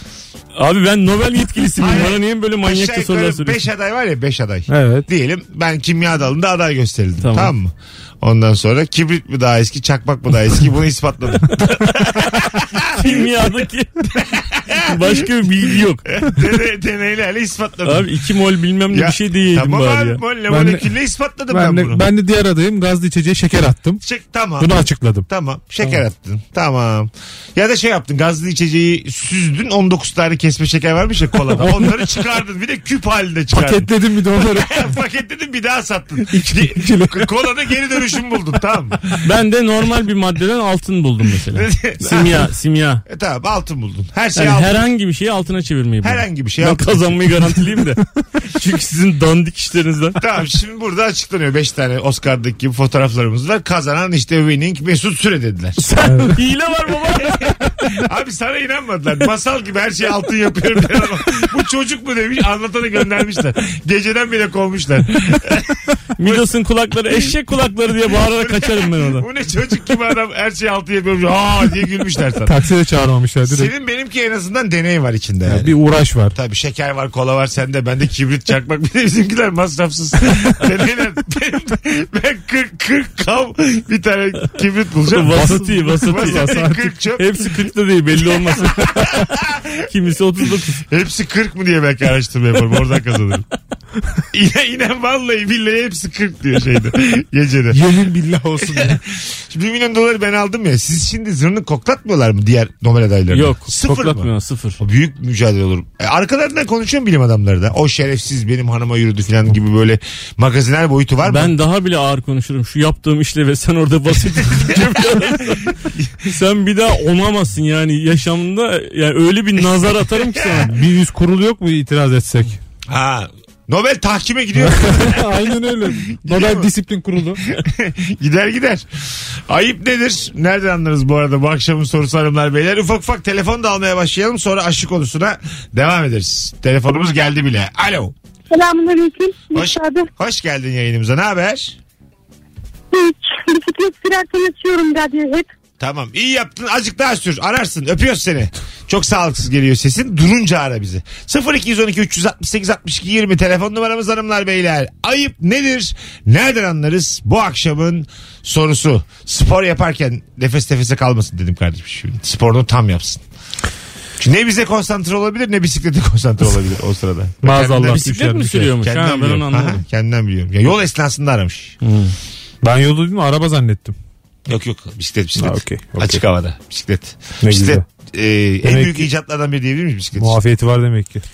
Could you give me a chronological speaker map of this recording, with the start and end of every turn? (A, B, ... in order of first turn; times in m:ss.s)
0:00.6-0:03.6 A
0:01.8-0:13.1 B
0:04.7-0:05.1 C
0:07.2-0:07.5 A
0:12.9-0:14.1 A
0:14.1-0:15.1 B
0:14.8-0:16.0 A
0:16.0-0:18.2 B
0:17.8-0:20.2 A
0:18.9-0:22.0 B
0:20.5-0:20.9 C
0:21.5-0:24.0 C
0:24.0-0:24.7 B
0:24.6-0:25.3 C
0:25.3-0:39.2 B
0:31.5-0:32.1 C
0:33.5-0:35.0 C
0:36.2-0:37.3 C
0:39.2-0:43.0 A
0:41.5-0:42.3 B
0:43.1-0:44.7 B
0:44.3-0:50.2 A
0:46.0-0:47.2 B
0:50.2-0:55.8 B
0:55.8-0:57.6 A
0:56.0-0:56.4 C
0:57.3-1:06.5 B
1:06.2-1:09.2 A
1:08.1-1:12.6 B
1:12.4-1:13.7 C
1:13.4-1:15.7 B
1:15.4-1:16.4 C
1:16.3-1:27.5 B
1:25.1-1:29.3 A
1:25.3-1:26.9 C
1:28.4-1:29.8 B
1:29.8-1:30.8 A
1:30.8-1:33.4 B
1:34.3-1:37.8 B
1:37.7-1:39.0 C
1:38.6-1:51.5 B
1:43.3-1:44.8 A
1:51.2-2:00.7 A
2:00.3-2:00.7 B
2:00.6-2:02.6 C
2:02.9-2:05.3 B
2:04.6-2:07.4 C
2:06.1-2:06.7 B
2:07.5-2:08.8 B
2:09.5-2:18.1 B
2:18.5-2:20.1 D
2:19.5-2:21.8 B
2:22.9-2:25.5 D
2:25.8-2:43.2 B
2:44.2-2:48.0 B
2:47.4-2:48.7 C
2:47.9-2:49.8 A
2:48.8-2:51.7 B
2:51.8-2:52.1 A
2:52.6-2:54.0 C
2:54.5-3:00.4 B
2:55.4-2:56.2 C
2:57.4-2:57.8 C
2:58.6-2:59.1 C
3:00.2-3:01.2 C